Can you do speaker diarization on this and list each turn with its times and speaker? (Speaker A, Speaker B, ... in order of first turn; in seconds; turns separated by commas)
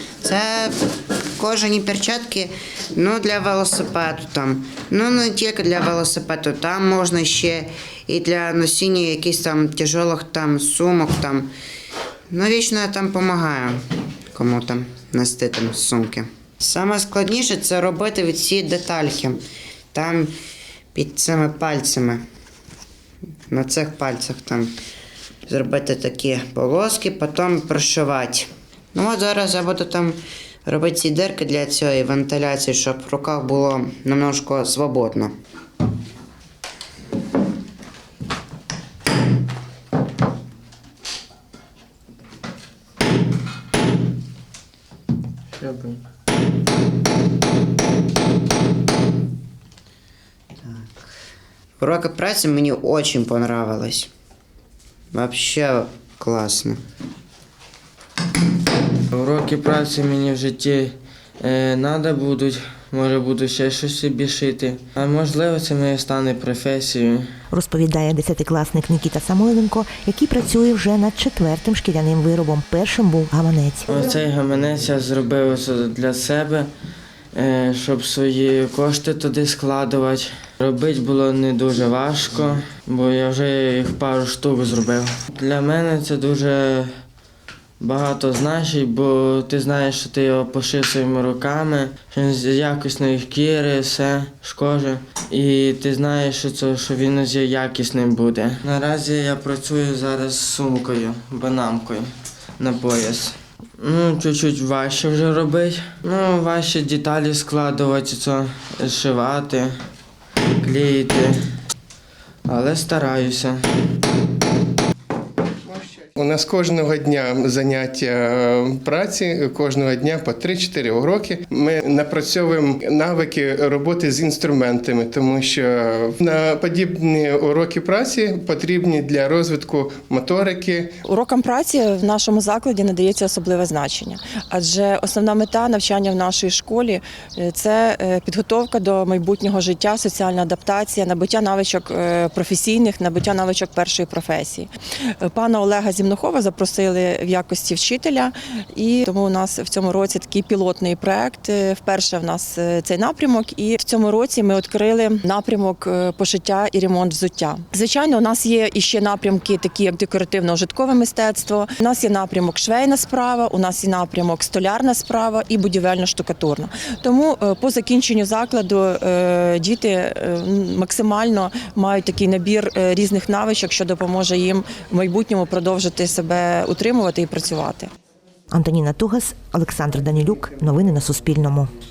Speaker A: 0.2-0.8, Speaker A: 1.4-11.5, Speaker A: 12.3-19.4, Speaker A: 19.9-20.4, Speaker A: 20.9-22.2, Speaker A: 23.5-24.7, Speaker A: 25.5-35.4, Speaker B: 45.6-46.0, Speaker A: 51.8-54.1, Speaker A: 55.1-56.8, Speaker B: 59.1-67.3, Speaker C: 67.5-73.9, Speaker B: 73.9-76.7, Speaker B: 77.3-86.9, Speaker B: 87.8-109.7, Speaker B: 110.6-111.4, Speaker B: 112.5-113.6, Speaker D: 115.8-130.9, Speaker E: 131.1-177.9, Speaker C: 178.5-181.7